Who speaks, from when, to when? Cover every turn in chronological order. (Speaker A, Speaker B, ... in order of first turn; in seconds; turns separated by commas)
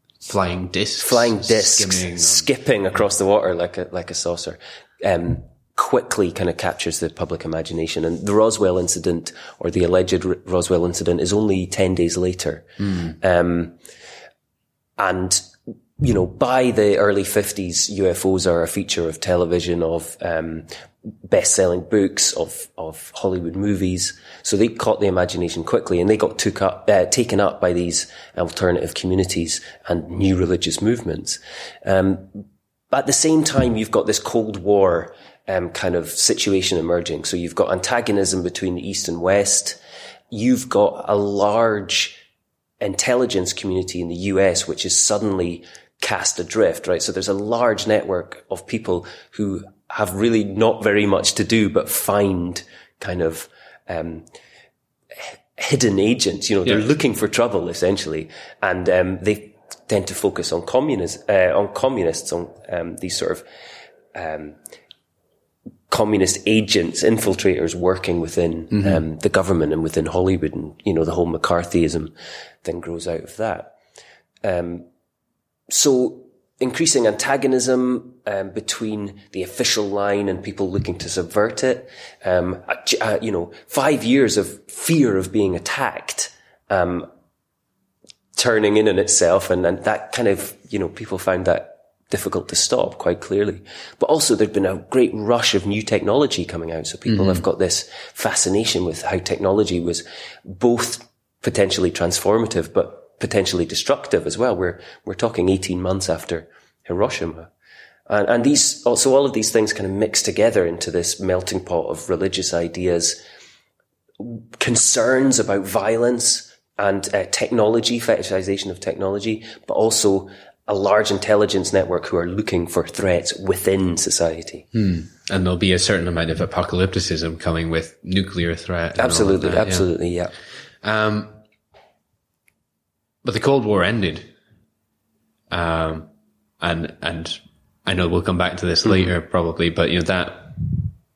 Speaker A: 0.2-2.5, Speaker B: 1.0-13.8, Speaker B: 15.0-15.5, Speaker B: 16.0-20.7, Speaker B: 21.2-39.8, Speaker B: 40.3-42.2, Speaker B: 42.8-54.2, Speaker B: 55.2-63.4, Speaker B: 64.1-64.5, Speaker B: 65.9-72.1, Speaker A: 68.7-69.0, Speaker B: 72.6-73.7, Speaker B: 74.4-74.8, Speaker B: 75.7-87.1, Speaker B: 88.3-107.5, Speaker A: 97.1-97.4, Speaker B: 108.1-113.2, Speaker B: 114.2-124.7, Speaker A: 124.7-129.9, Speaker B: 129.0-130.3, Speaker A: 130.8-131.3, Speaker A: 133.2-134.3, Speaker A: 135.5-136.1, Speaker A: 136.6-140.9